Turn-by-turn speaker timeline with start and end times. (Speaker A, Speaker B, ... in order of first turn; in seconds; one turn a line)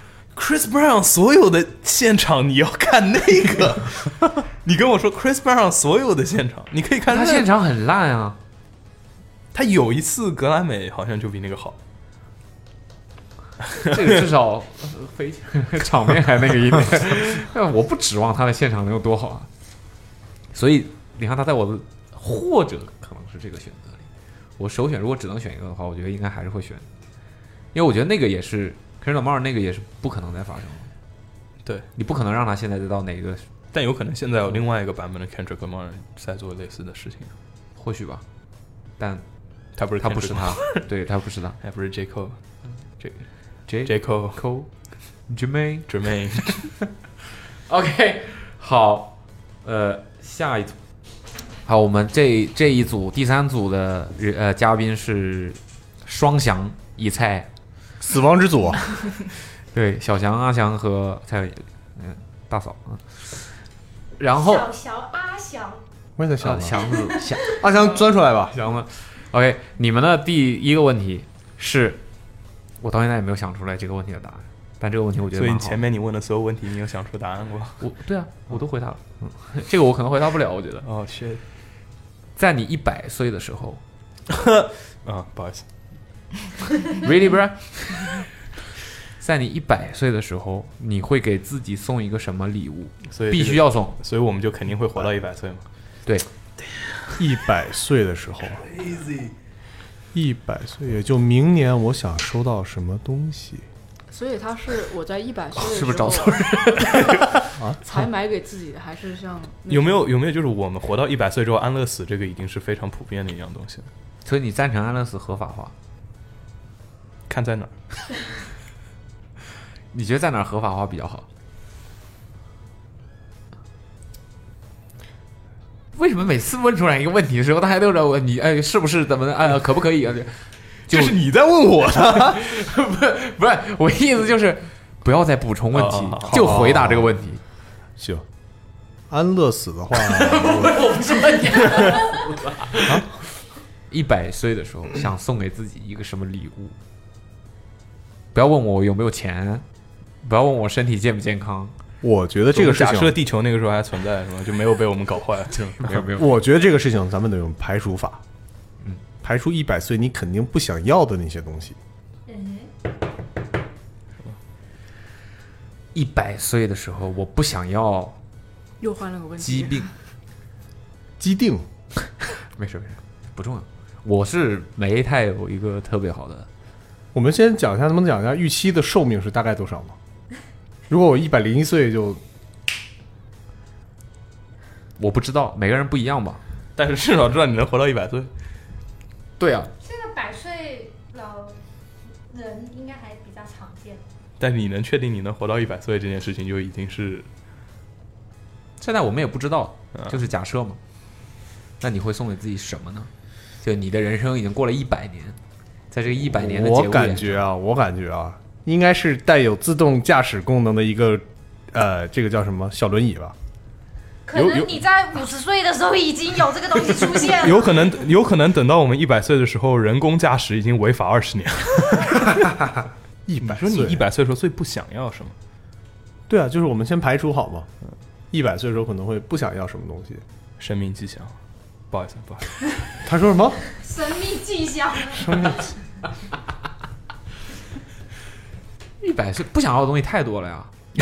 Speaker A: 0.3-7.5
Speaker B: 7.1-8.4
Speaker A: 9.5-11.8
Speaker B: 13.9-19.5
Speaker B: 20.5-26.9
Speaker B: 27.7-30.9
Speaker A: 31.6-31.9
Speaker B: 32.0-33.5
Speaker A: 33.7-37.4
Speaker B: 37.8-38.2
Speaker B: 39.0-41.6
Speaker A: 39.8-40.9
Speaker A: 41.6-42.4
Speaker A: 43.0-44.4
Speaker B: 43.7-44.7
Speaker B: 45.3-45.9
Speaker A: 45.9-46.7
Speaker B: 47.7-50.8
Speaker B: 51.6-57.5
Speaker C: 58.0-59.1
Speaker B: 59.7-63.5
Speaker B: 64.2-64.7
Speaker D: 64.4-65.8
Speaker C: 66.2-66.8
Speaker B: 66.4-72.0
Speaker C: 67.6-68.6
Speaker B: 72.8-75.8
Speaker A: 75.3-77.8
Speaker B: 77.8-80.9
Speaker A: 80.8-81.4
Speaker B: 82.4-83.8
Speaker A: 84.3-85.7
Speaker B: 87.0-88.3
Speaker B: 89.2-93.9
Speaker A: 93.1-95.7
Speaker C: 97.2-98.7
Speaker A: 98.6-99.3
Speaker C: 100.1-103.7
Speaker E: 104.1-106.8
Speaker B: 105.6-107.0
Speaker E: 107.8-110.0
Speaker A: 109.7-113.9
Speaker B: 114.2-115.7
Speaker A: 117.3-118.1
Speaker B: 119.9-121.3
Speaker B: 125.9-131.1
Speaker A: 130.9-132.3
Speaker C: 132.0-132.3
Speaker B: 132.3-137.4
Speaker A: 135.7-136.6
Speaker C: 136.3-137.2
Speaker C: 138.0-138.2
Speaker C: 139.1-140.7
Speaker B: 140.0-143.1
Speaker B: 143.9-146.8
Speaker B: 148.3-149.7
Speaker B: 150.2-151.8
Speaker C: 152.0-153.2
Speaker A: 152.5-156.0
Speaker B: 155.8-156.3
Speaker C: 156.2-158.2
Speaker C: 159.2-161.8
Speaker D: 162.3-162.7
Speaker B: 165.9-168.2
Speaker E: 168.8-169.9
Speaker B: 169.4-169.9
Speaker C: 171.2-171.7
Speaker B: 172.5-176.5
Speaker C: 177.1-180.0
Speaker C: 180.9-182.2
Speaker B: 185.0-186.4
Speaker A: 186.8-188.3
Speaker B: 189.4-189.7
Speaker D: 189.8-191.6
Speaker D: 192.3-194.0
Speaker A: 194.4-197.3
Speaker B: 198.8-200.8
Speaker B: 201.8-205.4
Speaker B: 205.9-207.4
Speaker C: 206.2-213.4
Speaker D: 214.2-217.8
Speaker A: 214.3-214.8
Speaker A: 217.3-222.3
Speaker C: 223.3-224.0
Speaker A: 223.4-225.4
Speaker C: 226.3-227.7
Speaker C: 228.3-230.2
Speaker A: 230.6-231.4
Speaker A: 231.9-232.6
Speaker C: 233.0-233.6
Speaker D: 233.7-235.7
Speaker C: 235.2-235.6
Speaker B: 239.0-240.7